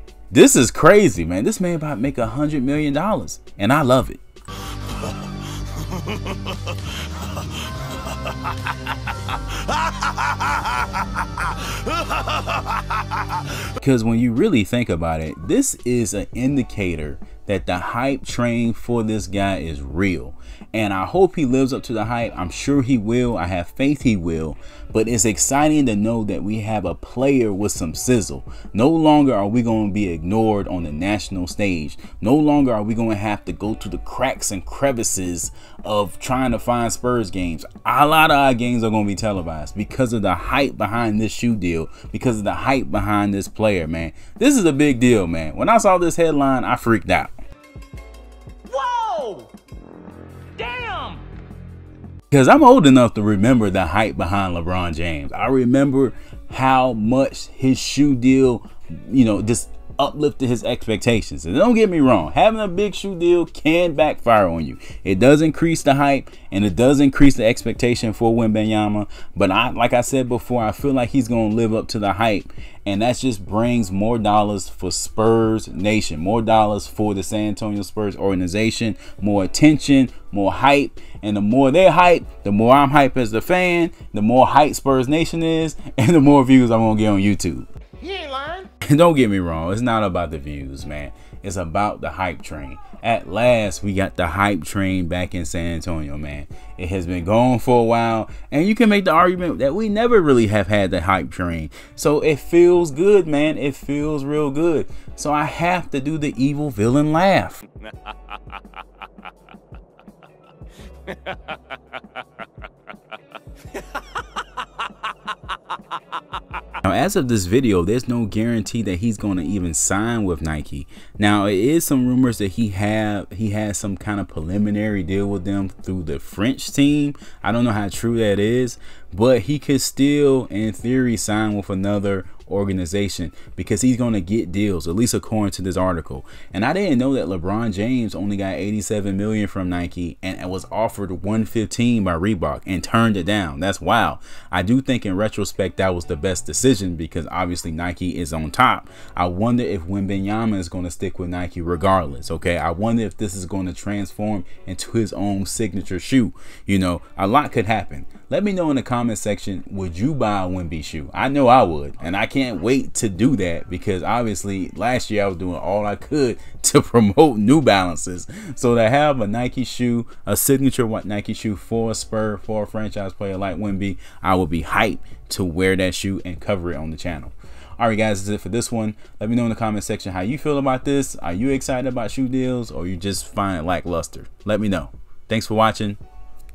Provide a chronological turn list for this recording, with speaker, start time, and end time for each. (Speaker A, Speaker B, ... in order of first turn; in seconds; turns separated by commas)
Speaker A: 0.3-4.2, Speaker B: 5.8-7.5, Speaker B: 8.1-8.8, Speaker B: 9.3-13.5, Speaker A: 13.7-47.3, Speaker B: 48.7-49.5, Speaker B: 50.6-51.2, Speaker A: 52.3-87.7, Speaker B: 88.0-88.7, Speaker A: 88.8-107.6, Speaker B: 111.1-111.8, Speaker A: 116.8-186.0